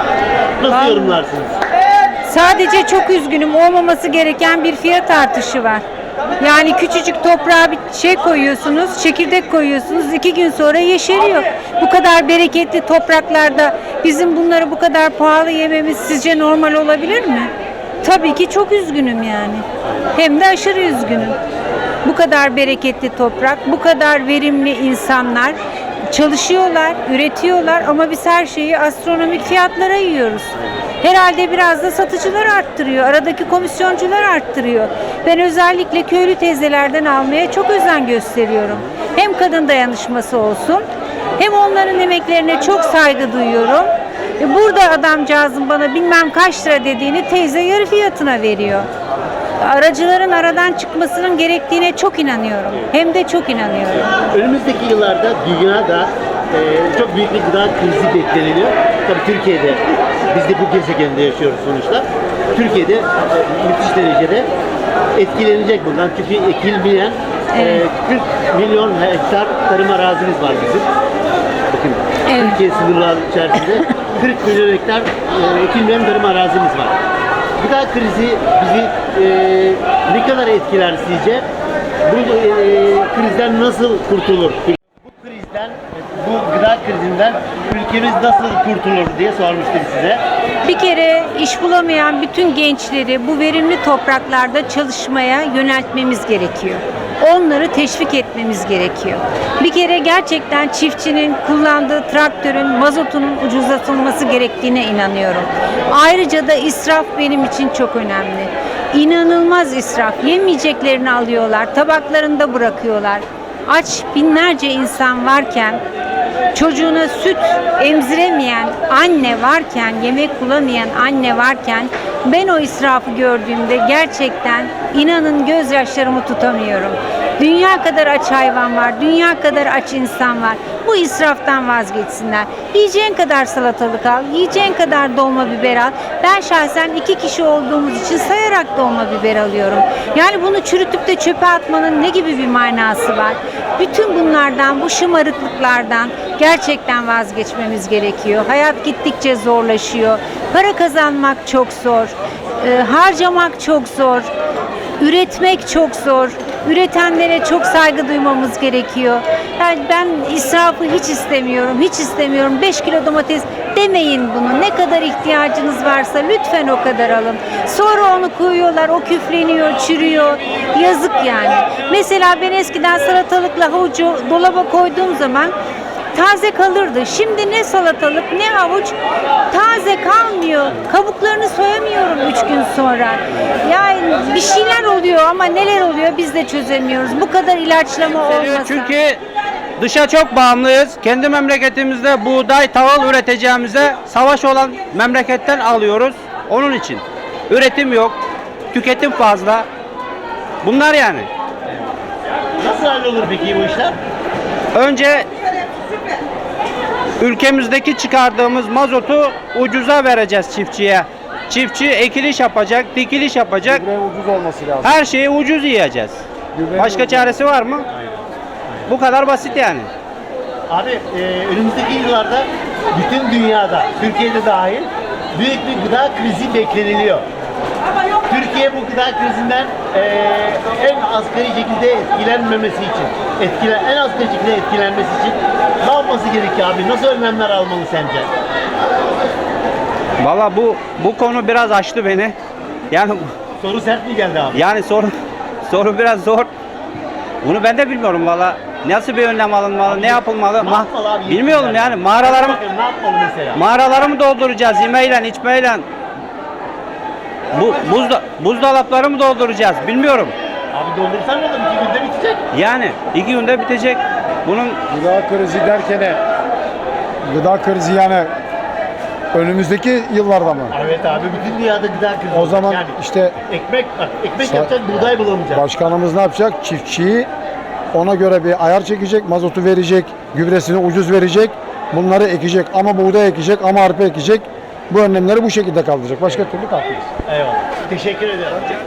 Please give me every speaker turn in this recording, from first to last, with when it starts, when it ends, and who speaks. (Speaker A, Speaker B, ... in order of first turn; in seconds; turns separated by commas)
Speaker A: 0.6-1.6, Speaker B: 0.7-1.2, Speaker B: 2.2-5.8, Speaker B: 6.4-17.5, Speaker B: 18.0-21.4, Speaker B: 22.0-25.6, Speaker B: 26.1-40.8, Speaker B: 41.4-48.9, Speaker B: 49.6-54.1, Speaker A: 54.3-64.5, Speaker A: 65.2-70.9, Speaker B: 67.5-67.8, Speaker A: 71.7-77.0, Speaker B: 72.3-72.6, Speaker A: 77.6-81.4, Speaker A: 82.1-90.2, Speaker B: 90.6-115.8, Speaker B: 116.5-154.3, Speaker B: 155.0-175.5, Speaker B: 176.1-178.9, Speaker B: 179.5-188.9, Speaker C: 188.3-189.2, Speaker C: 189.8-198.2, Speaker C: 198.7-199.7, Speaker C: 200.6-201.3, Speaker A: 202.6-204.0, Speaker C: 204.7-205.3, Speaker C: 207.2-213.8, Speaker D: 213.8-214.9, Speaker C: 214.8-216.2, Speaker D: 216.6-217.3, Speaker C: 216.7-217.8, Speaker A: 217.9-218.9, Speaker C: 218.9-219.9, Speaker A: 220.7-227.2, Speaker A: 228.3-238.3, Speaker C: 240.2-242.3, Speaker C: 242.9-243.2, Speaker A: 243.6-244.7, Speaker C: 244.5-245.1, Speaker C: 245.7-246.5, Speaker C: 247.4-252.6, Speaker A: 249.8-253.6, Speaker C: 253.6-255.9, Speaker C: 257.5-260.3, Speaker A: 260.7-262.4, Speaker C: 262.5-264.8, Speaker D: 264.9-266.2, Speaker D: 267.3-268.3, Speaker D: 269.3-270.7, Speaker A: 270.7-275.6, Speaker D: 272.3-273.4, Speaker D: 274.4-274.7, Speaker D: 275.5-277.3, Speaker D: 277.9-287.0, Speaker A: 287.2-288.6